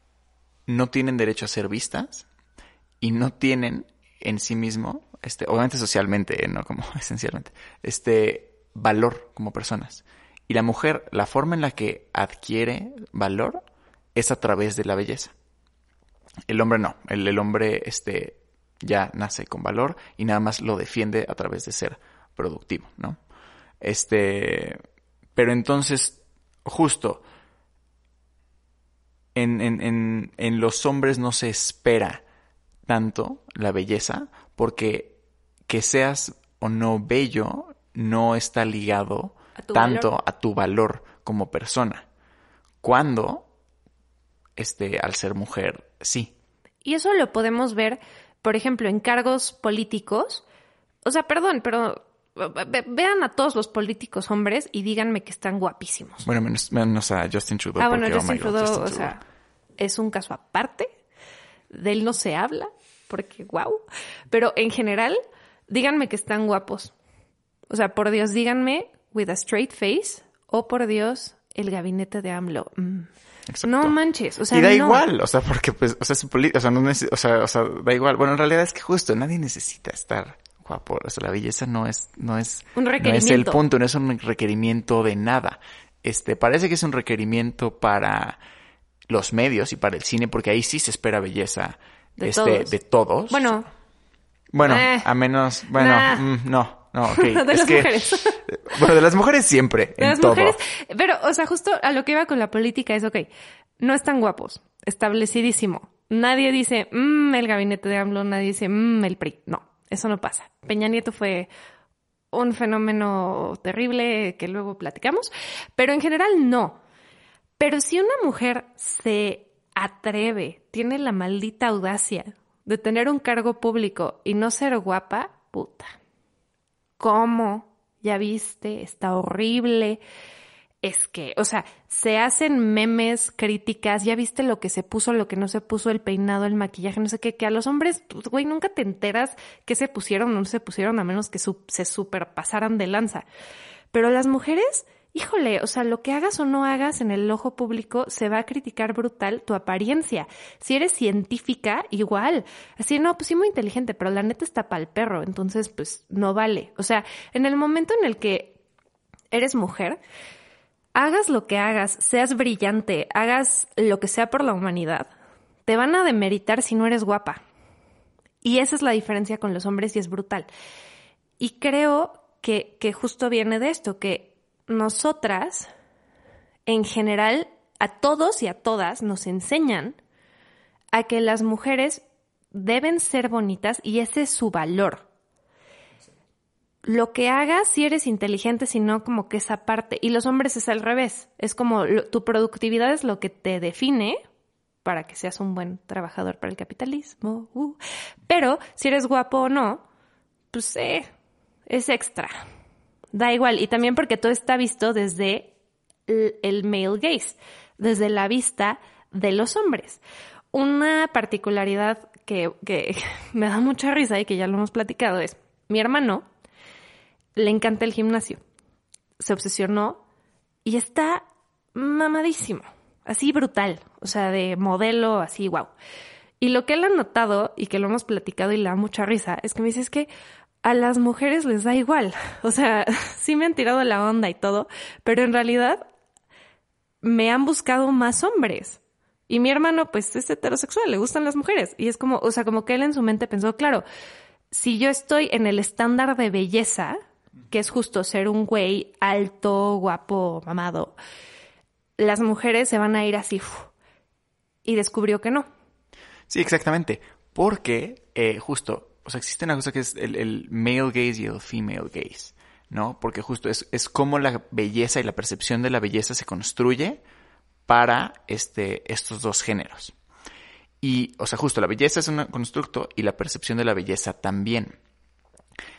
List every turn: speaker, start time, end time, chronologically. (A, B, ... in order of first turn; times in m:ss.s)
0:00.7-0:02.2 A
0:03.0-0:13.6 A
0:14.1-0:15.3 A
0:16.5-0:23.2 A
0:23.8-0:24.8 A
0:25.4-0:27.2 A
0:29.4-0:32.2 A
0:32.9-0:35.2 A
0:35.7-0:42.1 A
0:39.6-0:40.1 B
0:42.8-0:43.5 A
0:44.6-0:46.3 A
0:46.8-0:50.4 B
0:51.0-0:56.3 B
0:56.2-0:59.1 A
0:57.8-0:59.2 B
0:59.8-1:00.9 B
1:01.7-1:06.9 B
1:07.7-1:13.1 B
1:13.5-1:14.0 A
1:13.6-1:15.0 B
1:14.5-1:28.4 A
1:22.8-1:23.6 B
1:29.1-1:33.5 A
1:32.2-1:32.8 B
1:33.3-1:33.7 B
1:34.5-1:37.9 A
1:34.6-1:35.1 B
1:35.7-1:36.2 B
1:37.1-1:38.4 B
1:38.4-1:40.6 A
1:40.0-1:43.3 B
1:43.8-1:51.5 B
1:52.3-1:56.8 B
1:57.6-2:06.0 B
2:07.0-2:10.0 B
2:10.8-2:23.2 B
2:23.9-2:38.6 B
2:39.3-2:40.0 B
2:41.0-2:45.1 B
2:45.6-2:47.4 B
2:48.4-2:50.5 B
2:51.4-2:55.7 B
2:56.7-3:00.0 B
3:00.9-3:05.1 B
3:06.8-3:14.2 B
3:14.8-3:19.8 B
3:20.5-3:21.1 B
3:21.7-3:22.3 B
3:23.1-3:25.5 B
3:26.1-3:30.0 B
3:30.5-3:36.2 B
3:37.4-3:38.4 B
3:39.2-3:40.0 B
3:40.6-3:45.7 B
3:46.4-3:50.1 B
3:50.6-3:55.9 B
3:57.0-4:03.8 B
4:04.5-4:07.0 B
4:07.5-4:11.0 B
4:12.0-4:13.7 B
4:14.6-4:15.5 B
4:16.3-4:27.0 A
4:27.7-4:29.9 A
4:30.8-4:34.7 A